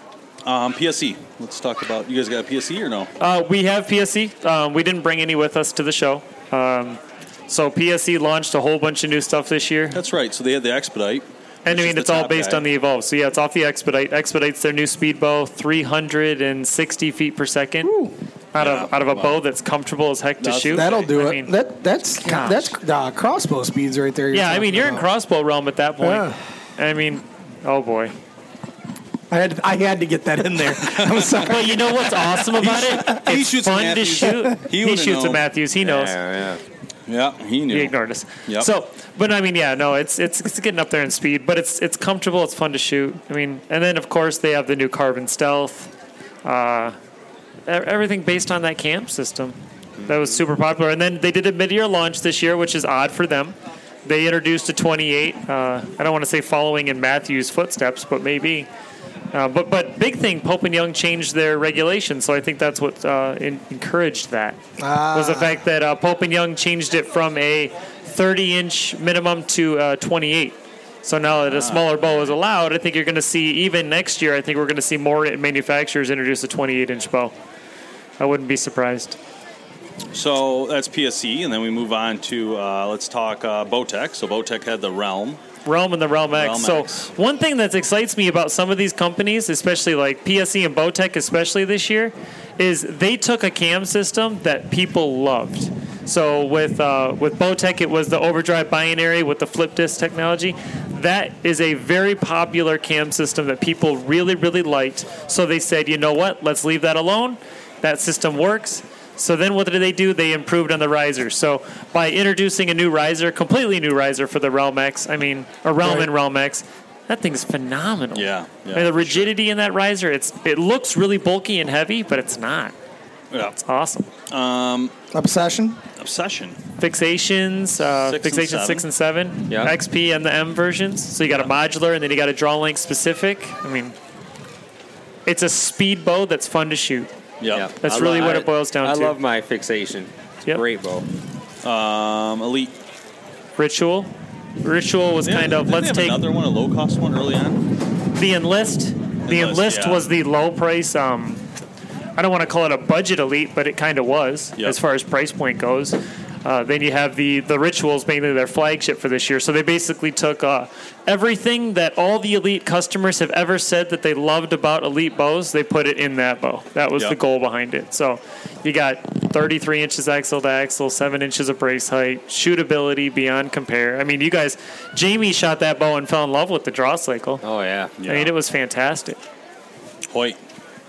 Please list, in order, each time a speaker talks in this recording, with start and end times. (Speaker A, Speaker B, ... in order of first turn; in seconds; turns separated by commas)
Speaker A: 0.5-3.1, Speaker B: 3.2-10.0, Speaker A: 9.9-12.6, Speaker B: 11.7-17.9, Speaker C: 17.8-18.1, Speaker B: 18.5-21.5, Speaker A: 18.6-19.4, Speaker A: 20.4-21.1, Speaker C: 20.7-25.1, Speaker B: 22.2-22.8, Speaker B: 24.3-28.1, Speaker C: 26.0-26.4, Speaker C: 29.3-32.3, Speaker A: 30.8-31.4, Speaker B: 31.4-36.2, Speaker A: 32.6-35.4, Speaker C: 32.9-33.3, Speaker D: 35.8-36.6, Speaker A: 37.1-38.0, Speaker B: 37.7-45.9, Speaker B: 46.4-47.0, Speaker B: 47.7-58.7, Speaker D: 50.0-50.4, Speaker B: 59.3-64.6, Speaker C: 64.8-65.6, Speaker B: 65.1-77.3, Speaker A: 71.5-71.9, Speaker B: 78.2-79.2, Speaker A: 80.1-85.4, Speaker B: 85.7-122.7, Speaker A: 86.3-87.1, Speaker C: 115.8-116.1, Speaker A: 118.1-119.3, Speaker A: 123.3-123.6, Speaker B: 123.6-124.1, Speaker A: 124.3-124.9, Speaker C: 125.1-125.8, Speaker A: 126.0-126.6, Speaker B: 126.8-133.9, Speaker A: 127.9-128.8, Speaker D: 129.5-129.8, Speaker B: 135.3-137.1, Speaker A: 137.4-137.7, Speaker D: 137.5-141.1, Speaker B: 137.8-139.2, Speaker A: 141.6-142.8, Speaker B: 143.6-144.1, Speaker B: 144.6-146.2, Speaker A: 145.2-147.6, Speaker B: 148.2-151.4, Speaker A: 149.2-150.1, Speaker B: 152.2-177.4, Speaker D: 177.4-177.9, Speaker A: 178.0-178.3, Speaker B: 178.0-179.2, Speaker A: 180.1-180.4